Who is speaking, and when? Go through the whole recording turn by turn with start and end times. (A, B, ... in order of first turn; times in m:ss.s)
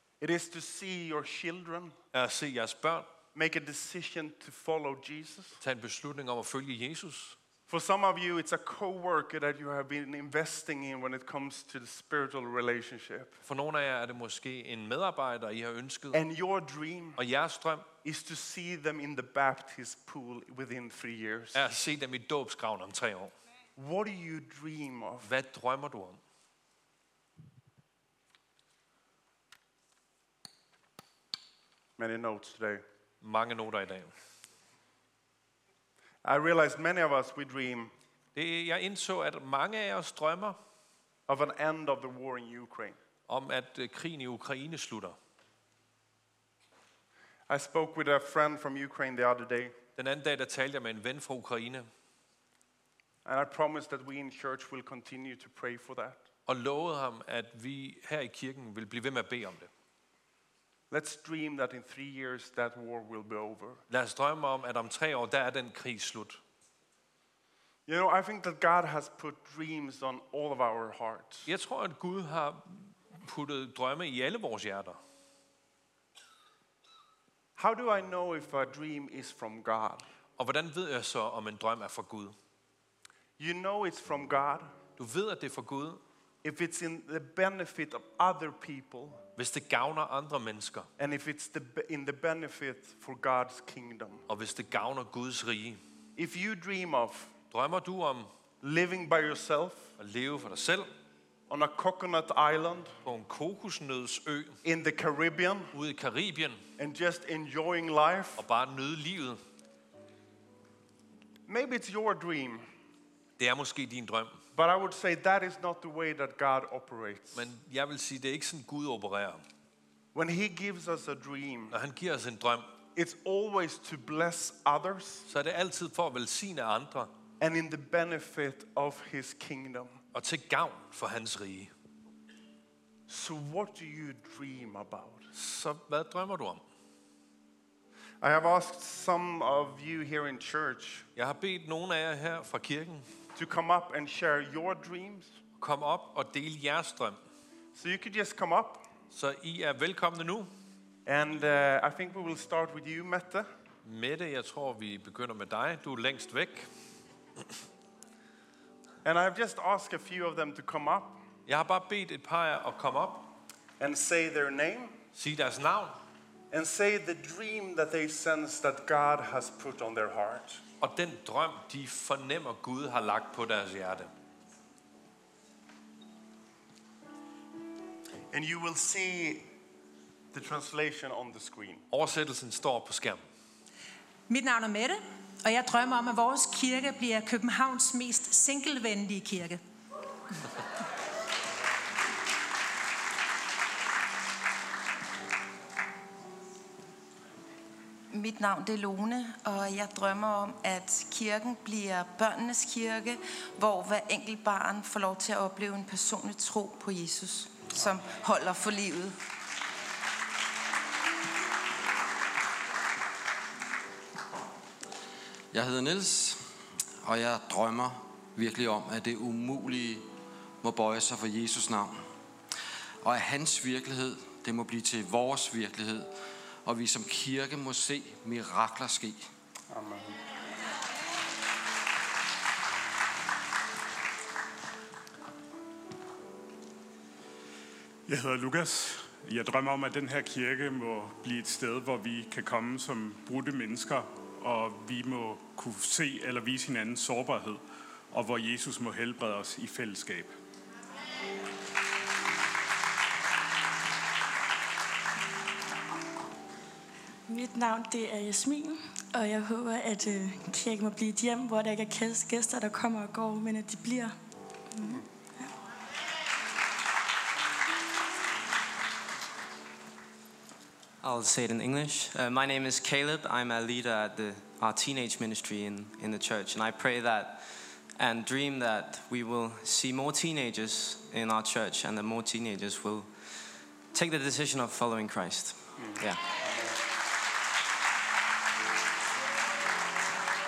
0:00.2-0:02.0 A
0:02.1-0:03.1 B
0:03.4-0:05.6 A
0:05.6-0:07.4 B
0:07.7-0:13.4 A
0:13.4-0:16.2 B
0:16.1-0:17.2 A
0:17.2-0:17.9 B
0:18.0-0:21.6 A
0:21.5-0:23.3 B
0:23.8-0:25.3 A
0:25.2-0:26.2 B
0:32.0-0:32.8 A
0:33.2-0:34.1 B
0:36.2-0:37.9 A
0:38.4-0:40.6 B
0:41.3-0:43.0 A
0:43.3-0:45.2 B
0:47.5-0:49.7 A
0:50.0-0:51.9 B
0:53.2-0:56.2 A
0:56.5-0:59.7 B
1:00.9-1:03.8 A
1:03.9-1:06.4 B
1:07.9-1:11.5 A
1:11.5-1:15.0 B
1:17.6-1:20.1 A
1:20.4-1:22.4 B
1:23.4-1:24.7 A
1:25.0-1:26.0 B
1:26.4-1:29.2 A
1:29.4-1:30.9 B
1:31.0-1:34.2 A
1:34.3-1:35.8 B
1:36.2-1:37.3 A
1:37.5-1:38.3 B
1:38.6-1:39.9 A
1:40.0-1:40.9 B
1:41.5-1:43.0 A
1:43.0-1:44.6 B
1:44.6-1:45.7 A
1:45.7-1:46.6 B
1:46.8-1:48.4 A
1:48.4-1:49.4 B
1:51.5-1:52.7 A
1:53.4-1:54.4 B
1:54.6-1:57.5 A
1:57.4-1:59.4 B
2:00.1-2:01.8 A
2:01.7-2:02.7 B
2:03.0-2:05.3 A
2:05.3-2:07.1 B
2:07.4-2:10.0 A
2:10.1-2:11.7 B
2:13.1-2:15.3 A
2:15.3-2:16.6 B
2:18.2-2:21.1 A
2:21.2-2:23.1 B
2:23.4-2:25.4 A
2:25.6-2:27.2 B
2:27.8-2:28.9 A
2:29.1-2:30.5 B
2:31.1-2:33.5 A
2:33.8-2:36.7 B
2:39.0-2:41.2 A
2:41.5-2:43.3 B
2:43.8-2:45.0 A
2:45.2-2:46.0 B
2:46.5-2:50.6 A
2:50.8-2:54.1 B
2:58.3-2:59.5 A
3:00.3-3:01.8 A
3:01.9-3:03.2 B
3:04.3-3:09.6 C
3:18.1-3:29.2 D
3:35.5-3:40.1 E
3:40.6-3:42.1 E
3:43.0-3:46.1 E
3:46.6-3:49.3 E
3:49.7-3:50.2 A
3:58.1-4:10.3 F
4:17.3-4:24.2 G
4:24.8-4:25.0 G
4:31.0-4:46.2 H